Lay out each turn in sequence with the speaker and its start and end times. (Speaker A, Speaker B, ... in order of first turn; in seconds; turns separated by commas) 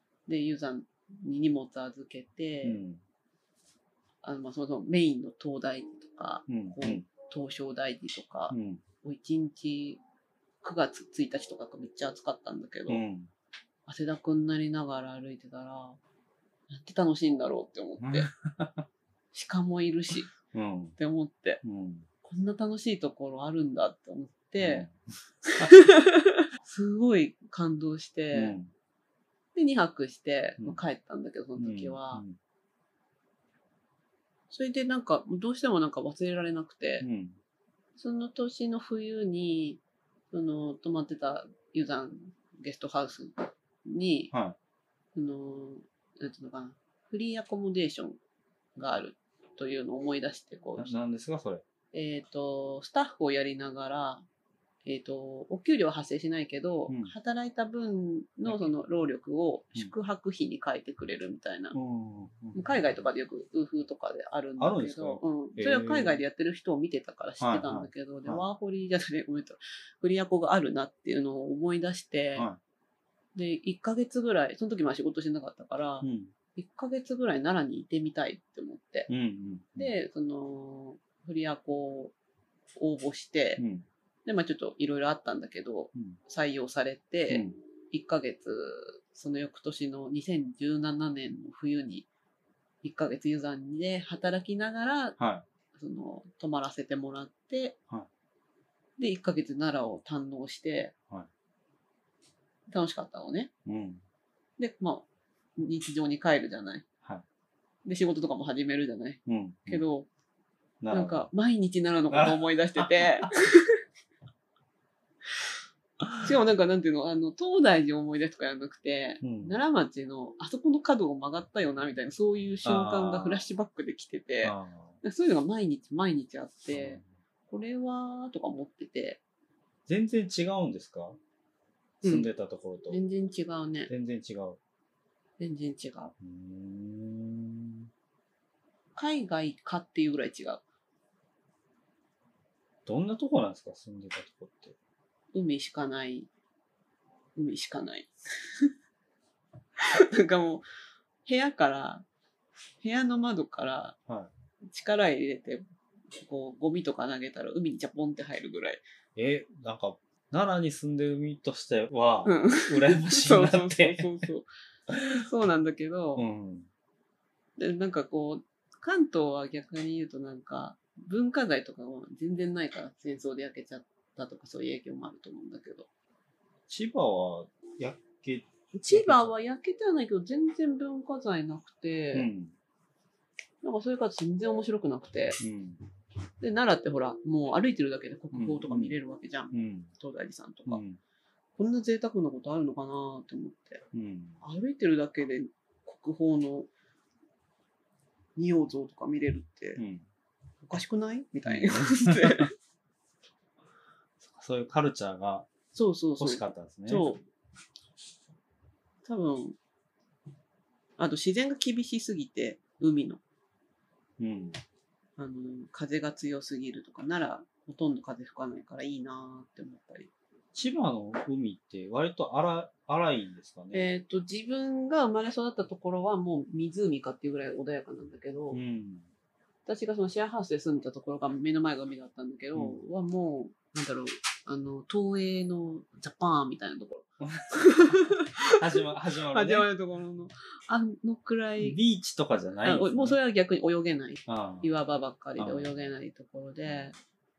Speaker A: 0.3-2.8, Speaker B: 2.6-3.0, Speaker A: 4.2-10.0, Speaker B: 6.5-7.0, Speaker B: 8.5-8.8, Speaker A: 10.6-13.0, Speaker B: 12.9-13.3, Speaker A: 13.8-16.0, Speaker A: 16.7-18.3, Speaker B: 18.0-18.9, Speaker A: 19.3-20.3, Speaker B: 20.4-21.0, Speaker A: 21.0-21.6, Speaker B: 21.6-22.1, Speaker A: 22.2-24.9, Speaker B: 24.6-24.9, Speaker A: 25.5-28.6, Speaker B: 28.3-28.7, Speaker A: 29.5-32.2, Speaker B: 31.6-32.4, Speaker A: 34.5-37.0, Speaker B: 37.0-37.4, Speaker A: 38.0-44.3, Speaker B: 44.3-44.6, Speaker A: 45.1-48.2, Speaker A: 48.8-50.9, Speaker B: 50.8-51.6, Speaker A: 51.9-54.2, Speaker A: 54.8-61.8, Speaker B: 56.9-57.1, Speaker B: 58.5-58.8, Speaker B: 61.7-62.8, Speaker A: 62.5-72.5, Speaker B: 64.6-66.2, Speaker B: 67.4-68.4, Speaker A: 73.3-79.1, Speaker B: 76.0-76.3, Speaker B: 79.1-79.9, Speaker A: 79.8-82.1, Speaker A: 82.8-83.6, Speaker B: 83.6-83.8, Speaker A: 84.2-92.1, Speaker B: 87.3-87.6, Speaker A: 92.8-95.2, Speaker B: 95.2-95.5, Speaker A: 95.7-97.8, Speaker A: 99.0-100.9, Speaker A: 102.7-103.5, Speaker B: 103.7-104.0, Speaker A: 104.6-105.0, Speaker A: 105.6-106.8, Speaker A: 107.8-110.1, Speaker B: 109.2-109.8, Speaker B: 110.8-111.3, Speaker A: 110.9-113.8, Speaker B: 112.1-113.3, Speaker A: 116.2-129.2, Speaker B: 119.2-119.6, Speaker B: 122.6-123.5, Speaker B: 124.4-125.0, Speaker B: 126.7-127.0, Speaker B: 129.9-131.2, Speaker A: 132.0-132.3, Speaker B: 132.0-133.0, Speaker A: 132.9-133.9, Speaker B: 133.9-134.6, Speaker A: 135.4-136.1, Speaker B: 136.2-137.9, Speaker A: 138.9-140.6, Speaker B: 142.8-144.8, Speaker A: 145.3-146.3, Speaker A: 147.3-148.1, Speaker A: 150.1-150.7, Speaker A: 151.2-152.1, Speaker A: 152.8-153.9, Speaker A: 154.7-158.8, Speaker B: 159.2-164.3, Speaker A: 162.2-164.5, Speaker A: 165.1-166.2, Speaker B: 166.2-166.7, Speaker A: 167.6-175.9, Speaker B: 176.7-179.3, Speaker A: 178.7-182.3, Speaker B: 182.1-182.5, Speaker A: 183.6-185.4, Speaker B: 185.4-185.8, Speaker A: 186.4-190.8, Speaker B: 188.3-188.9, Speaker B: 189.5-189.9, Speaker B: 190.7-191.0, Speaker A: 191.6-193.8, Speaker B: 193.9-194.4, Speaker A: 194.4-196.7, Speaker A: 198.3-199.8, Speaker B: 199.8-200.1, Speaker A: 200.6-202.5, Speaker B: 201.4-202.5, Speaker B: 204.2-205.5, Speaker A: 205.7-207.2, Speaker B: 206.2-207.1, Speaker A: 209.0-209.6, Speaker A: 211.0-213.2, Speaker B: 214.2-214.6, Speaker A: 215.2-220.1, Speaker B: 220.5-223.9, Speaker A: 223.7-228.6, Speaker B: 228.5-229.1, Speaker A: 229.7-238.5, Speaker B: 232.5-232.8, Speaker B: 237.2-239.7, Speaker A: 239.3-241.8, Speaker B: 241.6-243.2, Speaker A: 242.6-246.9, Speaker B: 244.3-244.7, Speaker B: 245.4-245.8